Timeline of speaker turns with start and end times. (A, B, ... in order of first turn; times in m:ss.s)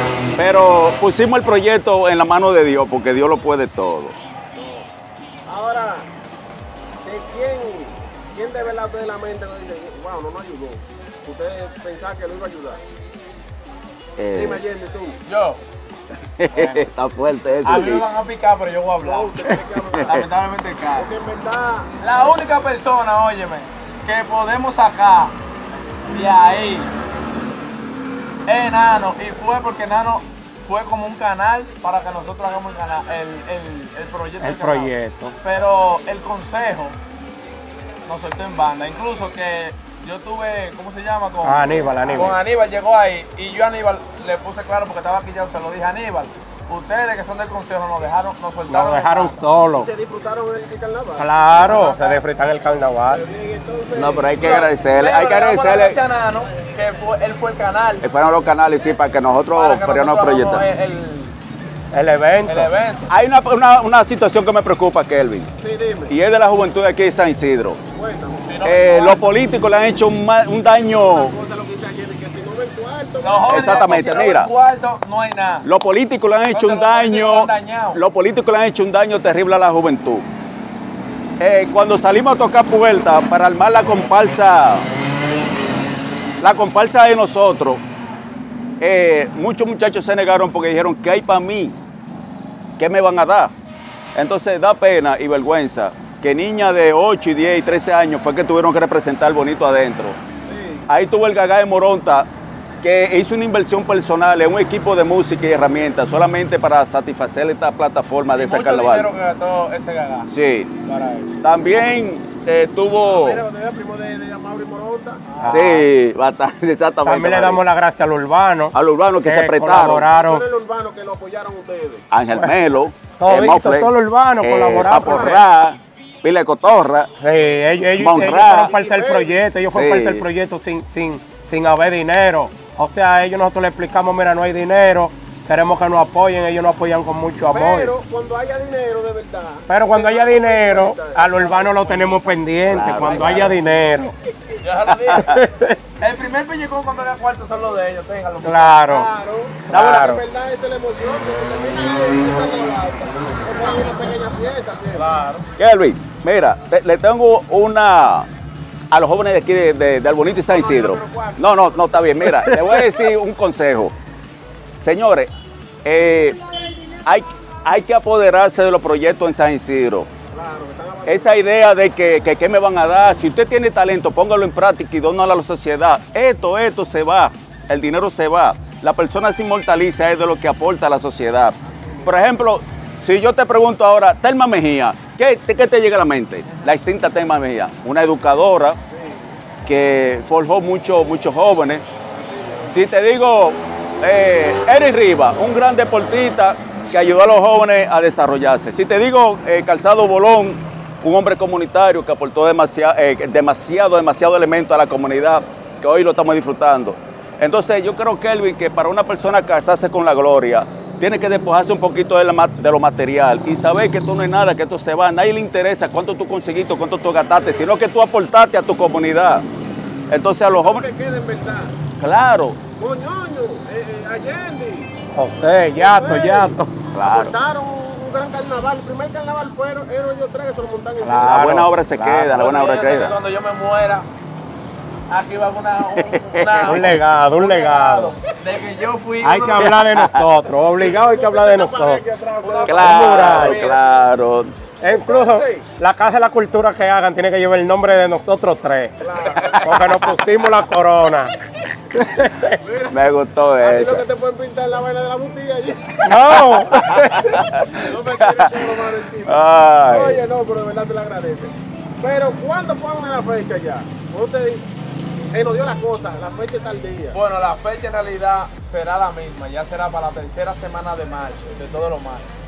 0:00.4-0:04.2 A
0:04.5-0:04.9 B
0:05.5-0:06.1 B
0:07.0-0:12.8 B
0:14.2-0:14.6 A
0:14.3-0:15.2 B
0:15.2-0:15.6 C
0:16.4-0:18.0 A
0:16.6-0:16.8 C
0:17.6-0:19.4 C
0:19.0-0:20.2 B
0:19.9-0:20.2 A
0:20.1-0:21.1 C
0:20.9-0:22.0 B
0:22.0-0:25.4 C
0:26.1-0:26.9 C
0:28.5-0:37.0 C
0:34.4-0:35.4 D
0:38.1-0:49.4 C
0:41.4-0:42.4 D
0:48.7-0:49.9 D
0:49.7-0:51.3 B
0:51.2-0:53.2 D
0:51.5-0:52.2 C
0:53.1-0:54.5 B
0:53.9-0:56.0 A
0:54.4-0:58.0 C
0:58.0-1:00.6 A
0:59.5-1:01.4 C
1:01.9-1:02.7 D
1:02.4-1:03.1 C
1:03.1-1:05.5 A
1:05.6-1:06.2 B
1:06.1-1:07.8 A
1:07.8-1:08.6 B
1:08.4-1:09.2 C
1:08.6-1:11.3 A
1:10.7-1:14.2 B
1:13.2-1:15.7 C
1:13.5-1:14.5 A
1:15.6-1:20.3 A
1:16.5-1:18.0 C
1:21.4-1:24.9 A
1:26.4-1:27.8 A
1:28.8-1:31.8 A
1:32.8-1:33.5 A
1:34.2-1:40.2 A
1:40.4-1:40.9 B
1:40.9-1:42.3 A
1:42.8-1:49.1 A
1:48.4-1:50.3 C
1:50.3-1:50.7 A
1:50.8-1:51.4 C
1:51.4-1:53.4 A
1:53.0-1:55.2 B
1:55.3-1:55.7 C
1:55.4-1:55.9 D
1:55.4-1:57.6 A
1:57.0-2:00.4 D
1:58.7-2:00.1 A
1:59.7-2:02.1 B
2:02.1-2:07.1 A
2:03.2-2:05.4 D
2:04.8-2:05.4 B
2:07.2-2:17.9 D
2:08.0-2:08.7 A
2:08.2-2:09.4 B
2:09.7-2:10.3 A
2:17.5-2:21.5 B
2:19.7-2:24.2 D
2:21.4-2:22.4 C
2:22.7-2:23.5 A
2:23.0-2:23.6 C
2:24.6-2:25.3 C
2:25.1-2:25.4 A
2:25.2-2:25.8 D
2:26.0-2:28.8 C
2:28.4-2:29.1 D
2:28.9-2:35.1 B
2:29.7-2:30.0 A
2:29.7-2:30.2 D
2:34.9-2:35.4 C
2:35.6-2:38.3 A
2:38.9-2:43.9 A
2:40.5-2:42.9 B
2:44.8-2:45.3 A
2:45.8-2:46.4 A
2:47.1-2:50.1 A
2:50.3-2:51.4 B
2:51.1-3:08.8 A
3:01.6-3:02.3 B
3:08.9-3:09.4 B
3:09.6-3:11.8 A
3:12.1-3:12.8 B
3:12.7-3:39.4 A
3:37.3-3:37.7 B
3:40.1-3:40.8 A
3:40.5-3:41.8 B
3:42.0-3:42.6 A
3:42.8-3:44.9 B
3:45.1-3:46.7 D
3:45.8-3:51.5 B
3:46.9-3:47.3 A
3:51.0-3:52.3 D
3:51.2-3:53.2 A
3:52.2-3:54.1 C
3:55.1-3:59.8 C
3:55.9-3:56.8 A
3:56.6-3:58.1 D
3:59.2-4:02.0 D
3:59.6-4:00.2 A
4:00.8-4:03.9 B
4:02.4-4:03.8 C
4:02.7-4:04.5 A
4:02.8-4:03.7 D
4:04.8-4:11.3 D
4:04.8-4:05.7 B
4:09.0-4:10.1 B
4:11.9-4:12.6 D
4:12.6-4:16.4 B
4:12.9-4:14.0 A
4:16.0-4:17.6 D
4:16.4-4:18.7 A
4:17.6-4:24.7 B
4:19.2-4:20.2 A
4:25.2-4:27.2 B
4:27.1-4:32.3 C